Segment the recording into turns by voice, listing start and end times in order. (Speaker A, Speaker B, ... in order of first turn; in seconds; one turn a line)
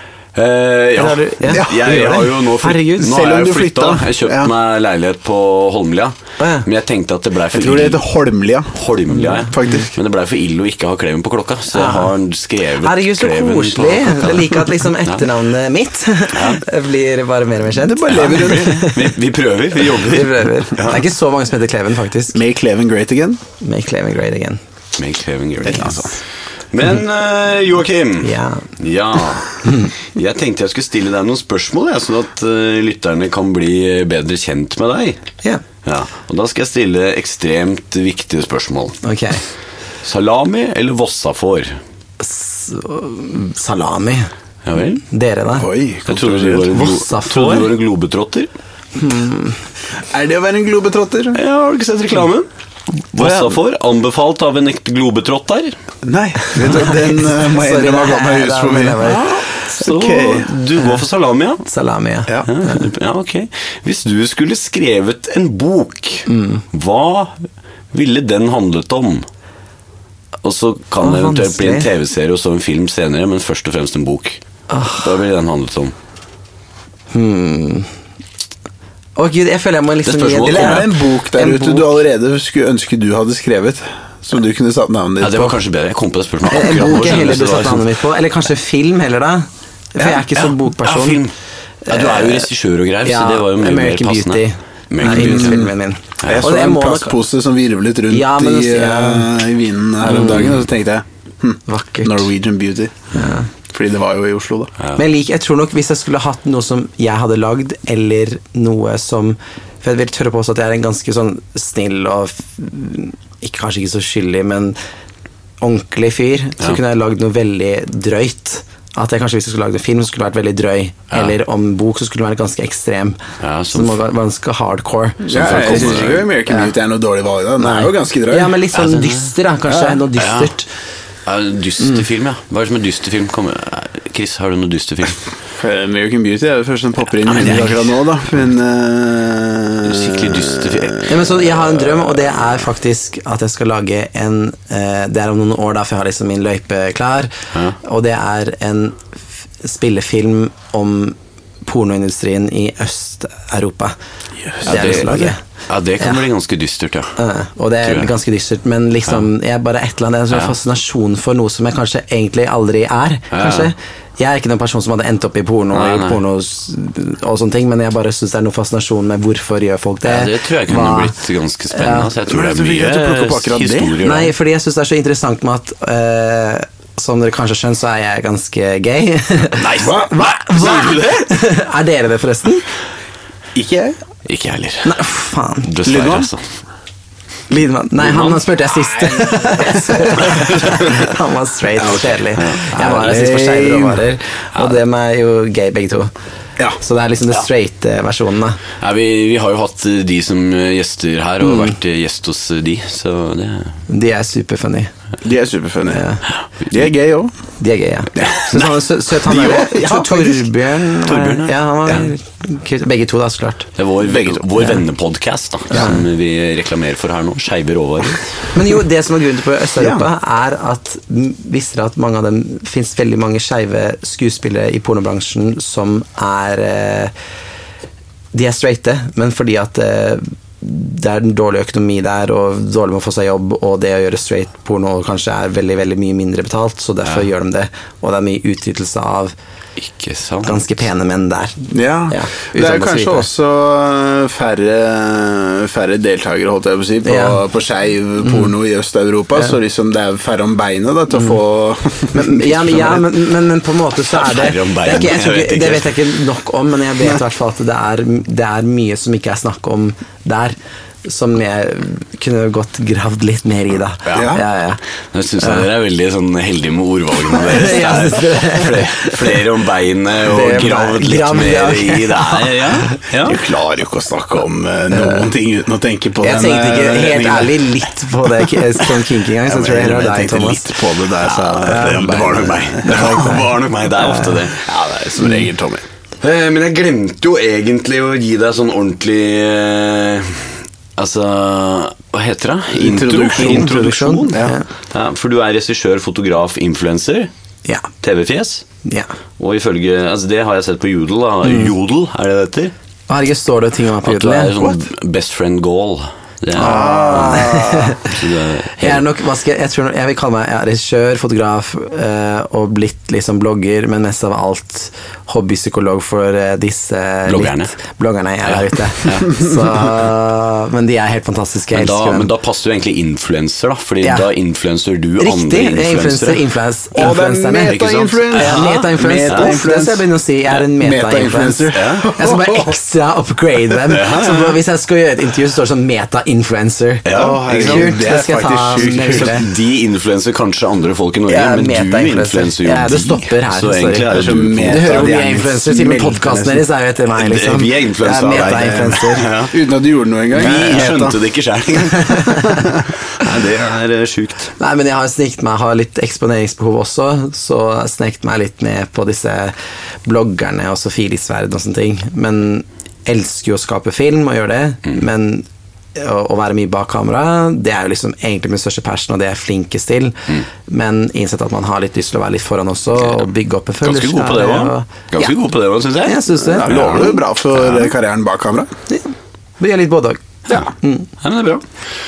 Speaker A: 0.3-8.0
Speaker B: 1.0-3.2
Speaker C: 1.5-2.3
Speaker C: 3.0-4.5
Speaker B: 6.4-6.7
Speaker C: 7.5-8.8
Speaker A: 8.7-15.2
Speaker B: 9.1-9.5
Speaker C: 9.5-9.9
Speaker B: 11.7-12.1
Speaker B: 12.8-19.1
Speaker A: 16.3-16.6
Speaker A: 18.0-21.0
Speaker C: 18.1-18.6
Speaker B: 19.8-22.4
Speaker C: 22.3-23.4
Speaker B: 23.6-24.6
Speaker A: 25.0-26.2
Speaker C: 25.6-26.1
Speaker A: 26.7-35.2
Speaker B: 28.2-28.7
Speaker B: 29.6-29.9
Speaker A: 35.8-39.0
Speaker B: 39.0-39.4
Speaker A: 40.0-41.8
Speaker B: 42.2-44.3
Speaker A: 44.6-45.0
Speaker B: 45.0-45.7
Speaker C: 45.5-46.8
Speaker A: 46.1-48.5
Speaker B: 46.7-47.7
Speaker B: 48.9-49.6
Speaker C: 50.1-51.4
Speaker A: 51.3-52.5
Speaker A: 53.1-55.8
Speaker C: 53.2-53.6
Speaker C: 56.0-60.5
Speaker B: 56.5-59.4
Speaker A: 59.8-61.6
Speaker B: 61.6-62.9
Speaker A: 62.5-69.2
Speaker B: 66.3-66.6
Speaker A: 70.4-74.4
Speaker B: 71.0-71.9
Speaker B: 74.7-75.1
Speaker A: 75.0-75.9
Speaker B: 77.1-77.9
Speaker B: 79.2-81.9
Speaker A: 80.0-80.9
Speaker C: 80.4-85.6
Speaker A: 85.2-87.8
Speaker B: 86.5-91.2
Speaker A: 90.0-91.3
Speaker B: 91.9-92.5
Speaker A: 91.9-95.7
Speaker B: 93.0-97.2
Speaker C: 95.0-95.7
Speaker A: 96.2-96.5
Speaker C: 96.2-102.9
Speaker B: 98.1-99.3
Speaker B: 100.0-100.5
Speaker B: 101.7-102.3
Speaker B: 103.1-103.5
Speaker C: 103.7-104.7
Speaker B: 105.0-114.8
Speaker B: 115.6-126.7
Speaker A: 123.4-124.0
Speaker C: 125.2-128.6
Speaker A: 125.3-126.3
Speaker B: 127.6-130.7
Speaker A: 128.7-129.3
Speaker C: 129.7-130.0
Speaker A: 130.1-130.5
Speaker A: 131.2-135.2
Speaker C: 135.5-141.1
Speaker A: 137.2-137.8
Speaker A: 139.8-141.2
Speaker B: 141.1-153.9
Speaker B: 154.6-155.4
Speaker A: 154.6-157.1
Speaker B: 157.2-171.2
Speaker A: 157.8-158.1
Speaker A: 163.3-163.7
Speaker A: 165.7-166.2
Speaker A: 170.0-174.3
Speaker B: 171.7-172.1
Speaker C: 172.2-174.0
Speaker B: 174.0-182.7
Speaker A: 179.6-181.3
Speaker C: 183.5-183.9
Speaker A: 184.2-184.9
Speaker B: 184.8-185.7
Speaker A: 185.6-186.4
Speaker C: 185.8-186.3
Speaker B: 187.5-196.1
Speaker A: 188.0-188.4
Speaker C: 189.6-190.3
Speaker A: 190.3-190.6
Speaker C: 191.8-194.0
Speaker A: 192.3-192.8
Speaker B: 196.8-198.6
Speaker A: 198.8-203.8
Speaker B: 201.4-201.7
Speaker B: 203.9-204.9
Speaker C: 205.2-206.0
Speaker B: 205.9-206.2
Speaker C: 206.7-207.3
Speaker B: 207.6-213.7
Speaker C: 208.1-210.5
Speaker A: 211.0-212.1
Speaker A: 213.8-218.3
Speaker C: 214.0-214.5
Speaker B: 215.7-216.0
Speaker B: 218.5-227.1
Speaker C: 219.8-220.1
Speaker B: 228.3-239.3
Speaker A: 239.8-240.6
Speaker B: 240.4-243.3
Speaker C: 241.7-252.9
Speaker B: 247.0-247.4
Speaker B: 252.1-264.8
Speaker A: 254.1-255.9
Speaker A: 264.1-264.4
Speaker C: 264.1-264.4
Speaker A: 265.1-273.4
Speaker B: 265.4-265.6
Speaker B: 267.3-269.4
Speaker B: 270.2-273.0
Speaker C: 273.2-277.7
Speaker B: 274.9-275.3
Speaker B: 276.2-280.7
Speaker C: 279.4-283.2
Speaker A: 281.3-284.6
Speaker B: 281.5-284.4
Speaker C: 284.6-285.8
Speaker A: 286.2-297.3
Speaker C: 292.8-293.8
Speaker B: 293.3-294.6
Speaker C: 294.3-294.5
Speaker A: 298.0-298.6
Speaker B: 298.8-299.1
Speaker A: 299.4-302.7
Speaker B: 301.4-301.7
Speaker B: 303.1-304.5
Speaker A: 304.0-309.0
Speaker B: 306.6-308.2
Speaker C: 306.6-307.9
Speaker B: 308.8-322.3
Speaker A: 317.3-317.7
Speaker A: 318.4-319.3
Speaker A: 321.7-326.4
Speaker B: 325.2-339.5
Speaker C: 326.9-332.7
Speaker A: 328.3-329.6
Speaker A: 331.7-332.1
Speaker A: 333.9-334.6
Speaker A: 337.0-337.9
Speaker C: 337.1-339.5
Speaker A: 338.8-345.0
Speaker B: 341.3-344.1
Speaker C: 344.1-346.6
Speaker B: 344.6-349.3
Speaker A: 347.1-349.5
Speaker C: 348.4-348.9
Speaker C: 349.5-351.2
Speaker A: 350.3-352.5
Speaker B: 352.0-352.5
Speaker A: 353.1-354.5
Speaker B: 354.6-375.3
Speaker A: 373.0-373.3
Speaker A: 373.8-377.9
Speaker B: 376.0-376.7
Speaker C: 376.6-378.7
Speaker B: 378.9-380.2
Speaker B: 380.8-381.1
Speaker A: 381.2-381.6